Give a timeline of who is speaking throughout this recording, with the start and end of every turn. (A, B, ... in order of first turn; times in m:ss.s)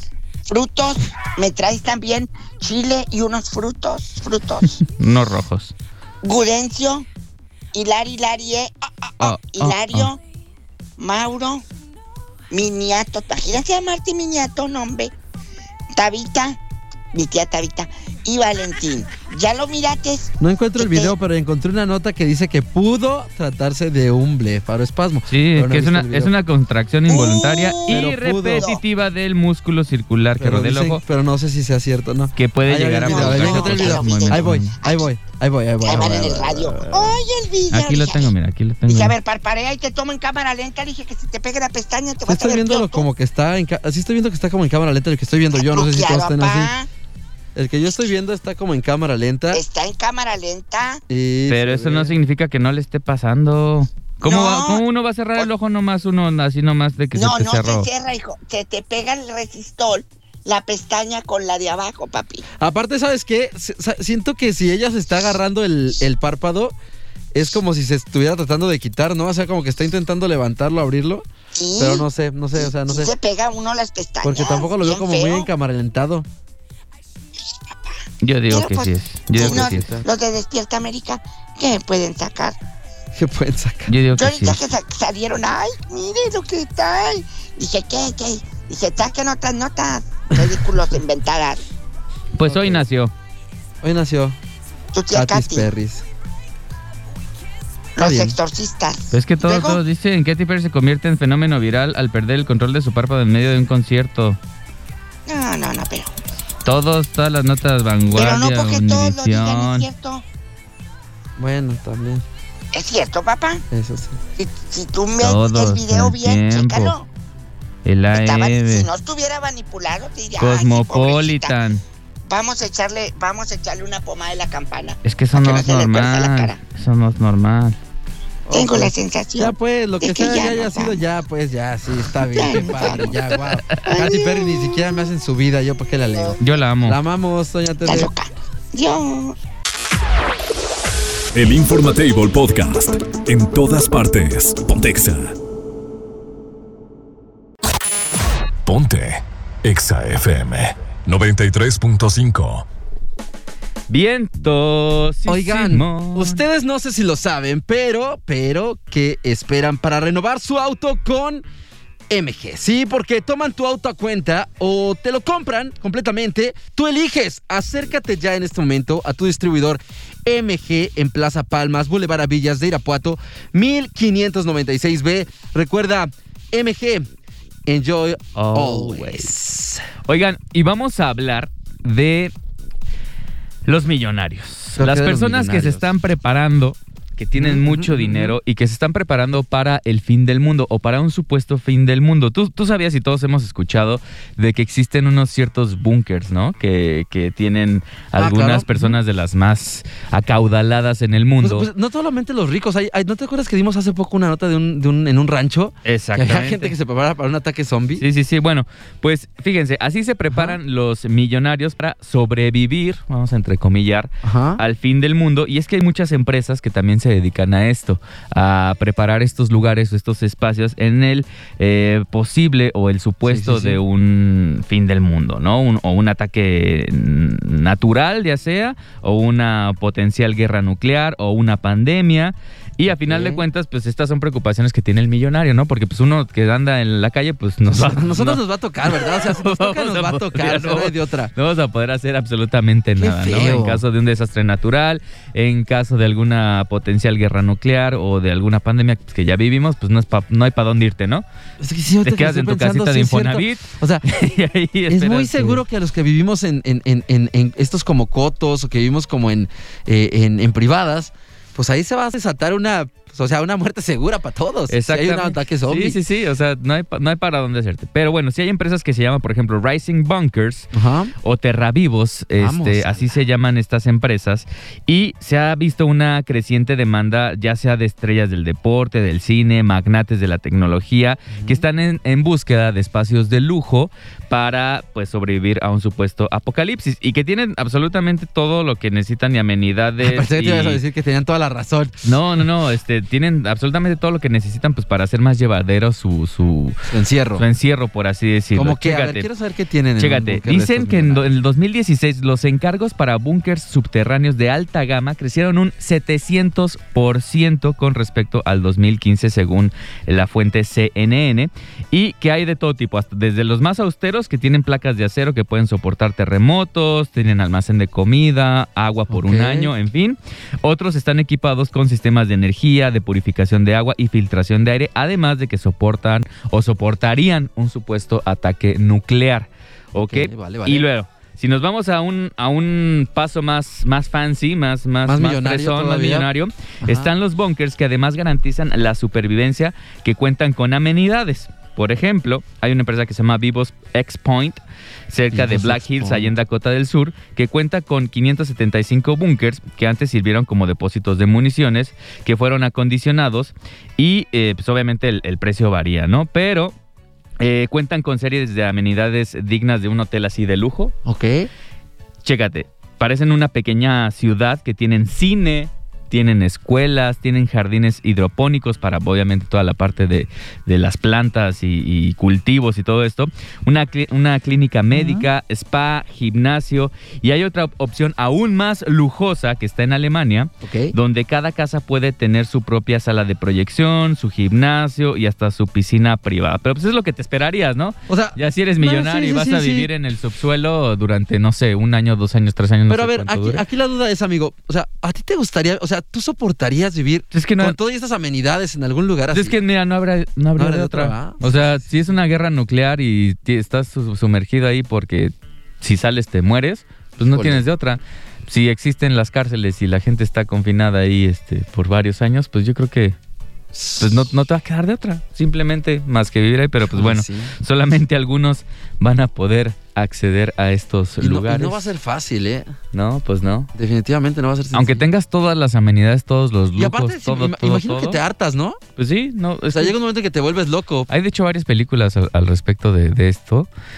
0:00.5-0:04.8 A
0:04.8-0:05.8 B
0:06.2-0:07.1 A
0:07.7-0:10.2 A
0:09.2-0:10.1 B
0:11.0-0:11.6 A
0:12.5-0:15.1 A
0:15.9-0:16.6 A
0:17.1-0:21.1 A
0:20.4-0:26.3 C
0:25.3-0:31.0 B
0:27.1-0:28.8 A
0:27.9-0:28.7 C
0:30.4-0:37.2 C
0:32.4-0:34.8 B
0:33.0-0:35.1 A
0:35.8-0:38.3 A
0:37.7-0:39.2 B
0:38.9-0:43.1 A
0:42.2-0:46.7 C
0:45.5-0:46.9 A
0:47.6-0:49.6 C
0:49.5-0:51.0 A
0:51.1-0:52.1 C
0:51.5-0:57.9 B
0:54.2-0:54.8 A
0:57.2-1:02.4 A
1:02.6-1:06.7 C
1:07.3-1:13.1 C
1:11.6-1:15.5 A
1:14.2-1:16.3 C
1:18.2-1:19.9 B
1:18.5-1:22.6 A
1:19.3-1:20.1 C
1:23.1-1:24.0 C
1:23.9-1:24.6 B
1:24.1-1:31.6 A
1:32.4-1:33.1 B
1:32.5-1:32.8 C
1:33.8-1:34.4 C
1:34.9-1:35.7 A
1:35.1-1:36.1 C
1:38.0-1:38.4 C
1:38.0-1:39.8 A
1:39.1-1:44.4 B
1:45.3-1:46.1 A
1:46.6-1:49.9 B
1:48.1-1:50.2 A
1:51.4-1:52.2 C
1:52.7-1:53.6 A
1:53.7-1:54.2 C
1:54.4-1:57.1 A
1:55.2-1:57.0 B
1:57.8-1:58.9 B
1:58.1-2:01.6 A
2:00.4-2:01.8 B
2:02.2-2:06.6 A
2:05.0-2:07.8 B
2:08.5-2:18.1 C
2:08.5-2:11.1 A
2:12.2-2:13.1 A
2:13.9-2:14.8 A
2:16.4-2:17.0 B
2:17.8-2:19.4 A
2:21.4-2:25.4 D
2:28.6-2:32.6 D
2:33.9-2:36.4 B
2:35.3-2:41.4 C
2:42.1-2:57.1 C
2:57.7-2:59.9 C
2:58.4-2:59.3 B
3:00.0-3:02.3 B
3:03.7-3:21.7 B
3:04.8-3:05.9 C
3:07.4-3:08.4 C
3:18.2-3:19.0 C
3:21.4-3:28.0 C
3:25.8-3:26.7 B
3:28.0-3:58.4 B
3:30.3-3:30.6 C
3:34.2-3:34.6 C
3:43.2-3:43.8 C
3:53.1-3:53.4 C
3:57.7-4:01.3 C
3:58.9-4:11.2 B
4:03.0-4:03.8 C
4:11.6-4:14.0 C
4:12.0-4:15.6 B
4:14.9-4:26.0 C
4:24.7-4:50.8 B
4:30.7-4:31.1 C
4:32.4-4:33.2 C
4:41.3-4:41.6 C
4:50.0-4:52.1 C
4:52.0-4:56.8 B
4:56.9-4:57.4 C
4:57.4-4:59.3 B
4:58.5-5:01.3 C
5:00.0-5:56.8 B
5:19.1-5:19.7 C
5:30.1-5:30.9 C
5:35.0-5:36.3 C
5:36.8-5:37.1 C
5:45.3-5:46.3 C
5:57.4-6:01.0 B
6:01.0-6:01.5 C
6:02.2-6:33.6 B
6:14.9-6:15.3 C
6:20.6-6:21.0 C
6:28.1-6:29.9 C
6:32.9-6:39.6 C
6:37.3-6:37.8 B
6:39.3-6:53.2 B
6:40.6-6:41.6 C
6:47.3-6:47.6 C
6:53.7-6:54.1 C
6:54.0-7:01.8 B
6:56.9-6:57.5 C
7:01.2-7:02.7 C
7:02.9-7:03.7 B
7:03.8-7:05.1 C
7:04.7-7:08.2 B
7:06.8-7:08.8 C
7:09.0-7:10.0 B
7:09.7-7:11.1 C
7:11.1-7:13.7 B